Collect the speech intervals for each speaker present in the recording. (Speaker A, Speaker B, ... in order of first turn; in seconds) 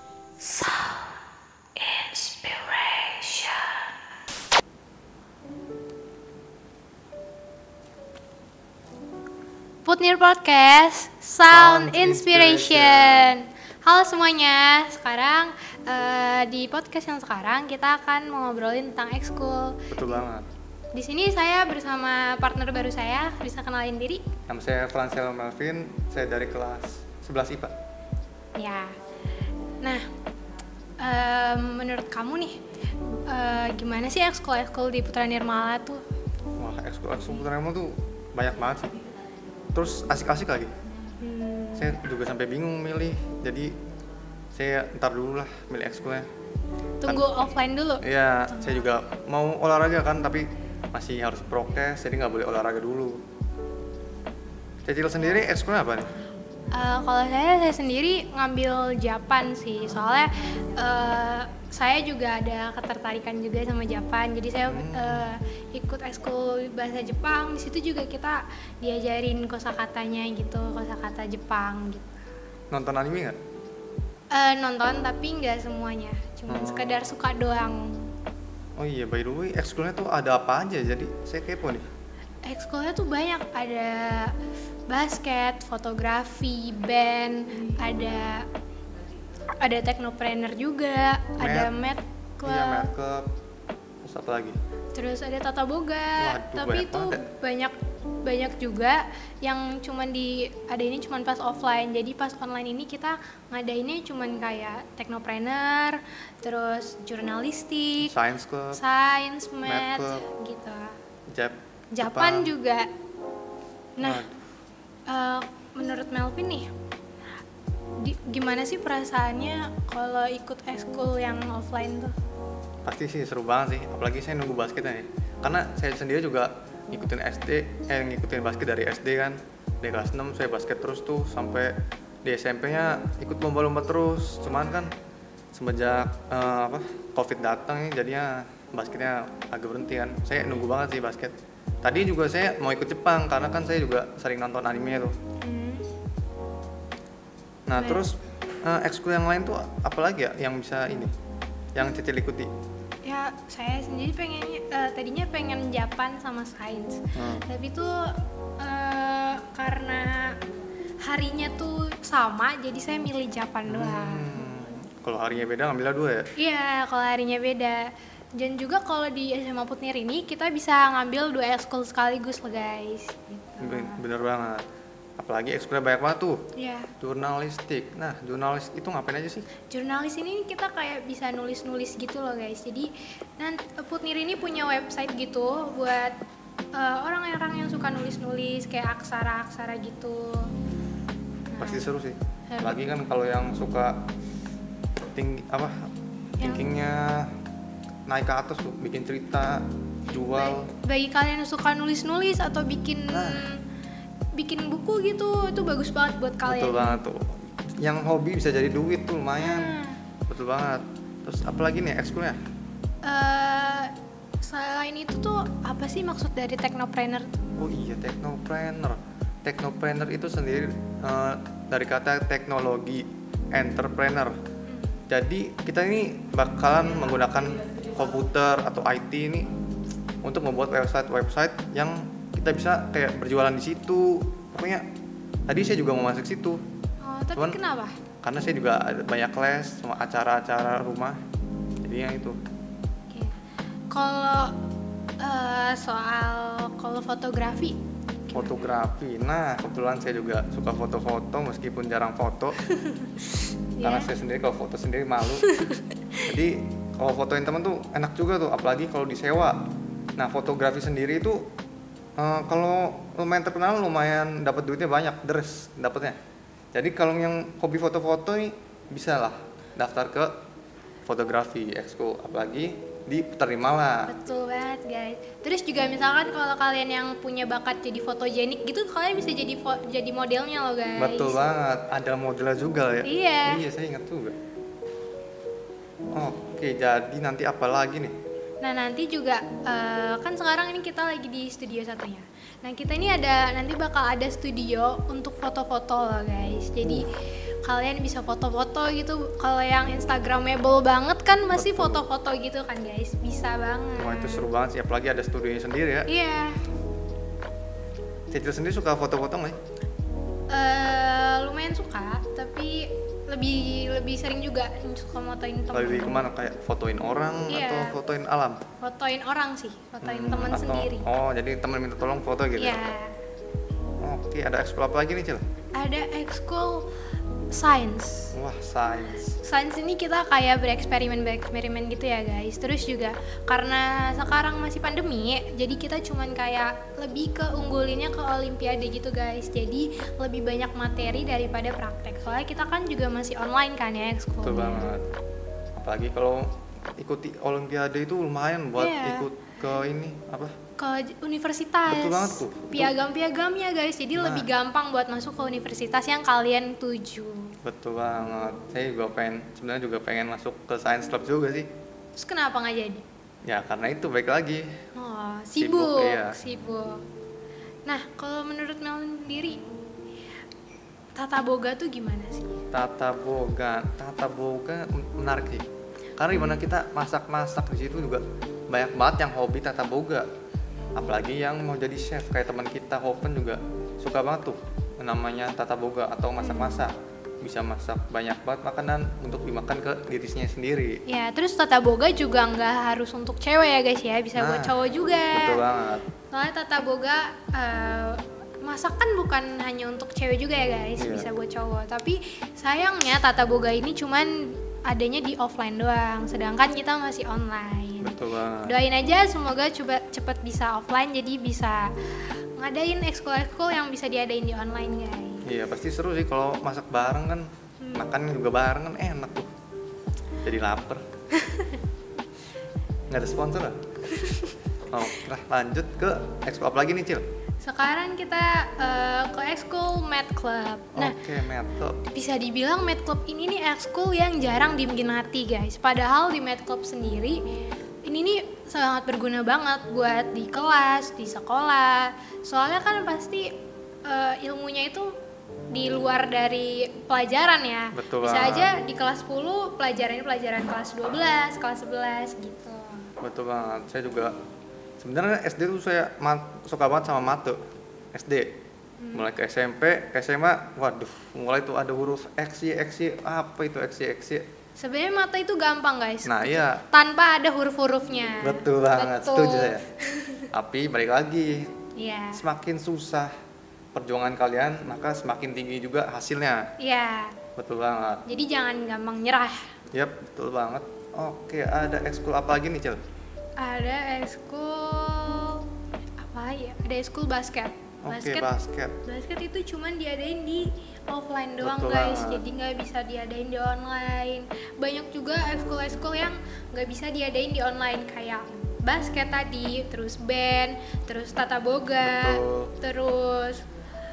Speaker A: 0.4-0.9, 1.8-3.8
Speaker B: 9.8-20.2, 20.9-24.2, 28.6-28.9, 31.0-32.6, 33.3-36.0, 41.2-41.9, 47.0-48.9, 56.7-72.2, 74.3-78.1, 82.4-84.3, 84.9-88.5, 89.6-92.9, 94.9-108.1, 108.7-111.0, 111.9-112.9, 114.0-114.2, 115.1-116.7, 118.0-122.1, 145.4-145.9, 147.8-148.0, 153.0-160.4, 161.0-164.3, 166.4-174.0, 176.5-176.9, 179.7-186.1, 186.7-190.5, 191.5-191.9, 192.5-192.8, 196.4-196.6, 200.2-203.6, 204.3-207.0, 209.4-210.0, 213.0-213.9, 214.4-217.5, 224.7-225.0, 237.0-237.9, 243.9-244.5, 245.2-247.8, 252.7-253.1, 253.7-254.1, 255.4-256.2, 274.1-281.4, 283.0-283.6, 288.6-297.1, 297.6-304.5, 306.1-306.6, 310.5-316.3, 317.5-318.0, 318.8-321.1, 322.6-323.1, 325.7-326.9, 327.5-328.3, 329.3-344.9, 348.8-349.2, 350.8-357.5, 362.1-363.0, 364.9-367.0, 367.9-369.6, 371.1-372.6, 386.4-386.9, 391.1-395.6, 396.3-415.5, 417.8-418.1, 421.4-421.8, 424.2-424.5, 427.6-431.1, 432.1-437.4, 438.0-443.5, 444.0-445.1, 445.7-453.1, 459.0-459.3, 464.8-470.5, 471.9-472.4, 476.8-477.4, 478.2-479.6, 483.6-485.6, 486.2-488.5, 489.0-503.6
Speaker C: 11.5-13.4, 19.9-20.4, 24.5-27.7, 36.6-39.0, 39.7-40.7, 41.8-43.7, 44.5-46.3, 48.0-53.2, 54.9-56.1, 64.7-65.3, 72.7-73.4, 76.5-77.1, 78.8-81.8, 91.4-91.7, 92.4-93.3, 94.0-94.6, 96.2-97.2, 108.0-108.8, 109.6-110.3, 111.3-112.5, 114.0-114.5, 122.8-134.9, 135.5-145.1, 147.7-151.1, 151.7-152.5, 157.1-157.4, 163.7-166.2, 173.6-174.6, 175.2-176.4, 177.0-179.5, 191.6-194.0, 195.1-197.3, 198.1-200.7, 203.1-203.4, 206.4-212.4, 217.6-224.4, 225.1-229.5, 230.2-234.8, 235.5-236.6, 238.2-241.2, 241.8-242.4, 248.3-252.6, 253.8-255.5, 256.2-259.6, 260.2-261.5, 262.2-266.2, 266.7-270.4, 271.1-274.1, 281.0-284.4, 286.1-288.2, 301.5-302.0, 304.0-306.1, 308.3-309.6, 315.7-318.6, 320.0-322.9, 324.0-325.4, 328.3-329.4, 344.4-345.1, 345.8-350.5, 351.9-352.9, 354.1-354.5, 357.6-361.7, 363.4-364.7, 365.6-366.4, 372.7-375.6, 376.2-380.3, 380.9-391.0, 394.3-394.8, 395.3-396.1, 401.0-401.3, 408.0-408.7, 415.4-419.5, 420.4-421.0, 423.1-423.8, 424.9-427.2, 430.9-432.0, 447.9-448.7, 453.2-454.3, 455.0-457.6, 458.1-458.6, 459.1-464.5, 466.2-466.8, 468.4-469.9, 470.5-471.7, 472.3-473.3, 473.9-476.6, 477.6-478.2, 479.9-483.0, 488.0-488.9, 491.6-492.4, 502.0-502.7